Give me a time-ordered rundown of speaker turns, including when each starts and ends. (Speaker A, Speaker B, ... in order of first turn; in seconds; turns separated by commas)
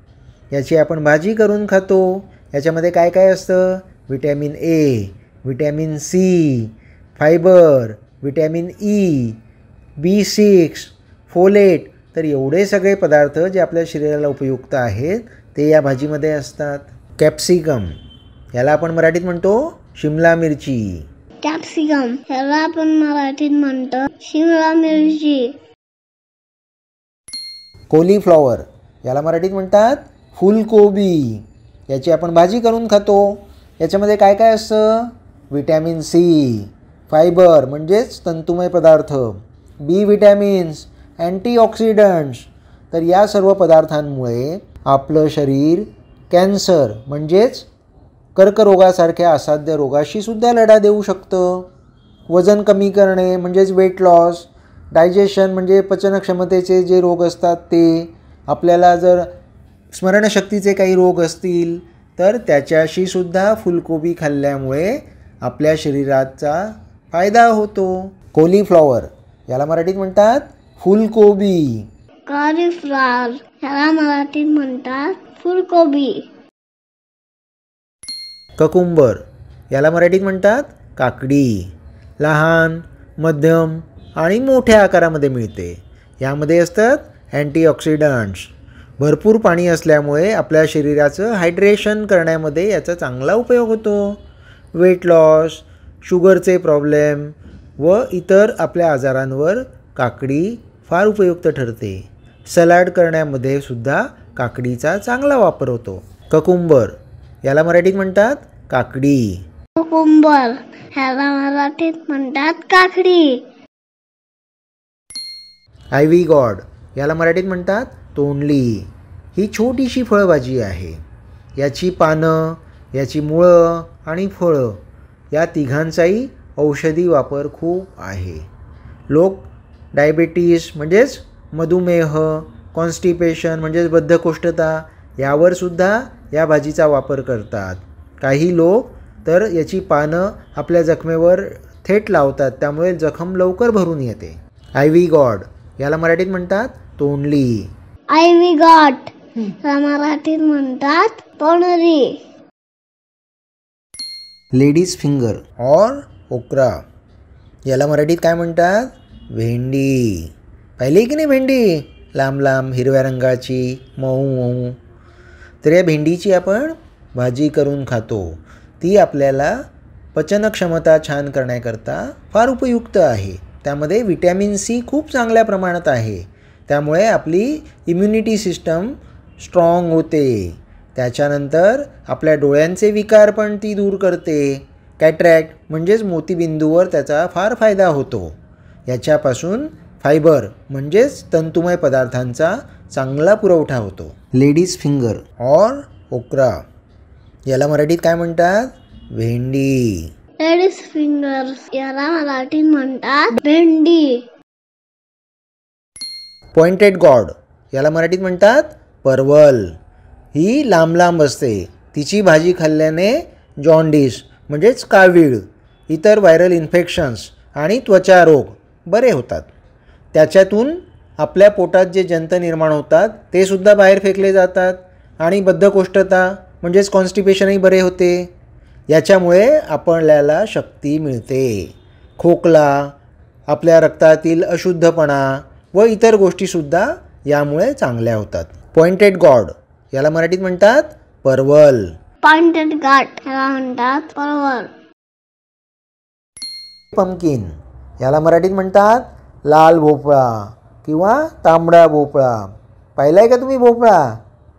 Speaker A: 0.5-9.4, Speaker A: 10.0-17.9, Speaker A: 18.5-21.1, Speaker B: 21.4-25.5, Speaker A: 27.9-47.7, Speaker A: 48.3-51.7, Speaker A: 52.3-59.3, Speaker A: 59.9-71.9, Speaker B: 72.3-76.2, Speaker A: 78.6-94.2, Speaker A: 94.7-109.4, Speaker B: 109.8-113.4, Speaker A: 115.9-121.0, Speaker A: 121.6-124.8, Speaker A: 125.3-128.5, Speaker A: 129.1-147.7, Speaker B: 148.1-152.2, Speaker A: 154.5-156.8, Speaker A: 157.7-164.8, Speaker A: 165.6-169.6, Speaker A: 170.1-188.3, Speaker A: 188.9-196.6, Speaker A: 197.5-200.1, Speaker B: 200.4-204.2, Speaker A: 206.5-209.7, Speaker A: 210.3-219.5, Speaker A: 220.1-228.3, Speaker A: 228.9-232.9, Speaker A: 233.5-241.9, Speaker B: 242.2-244.7, Speaker A: 246.9-254.2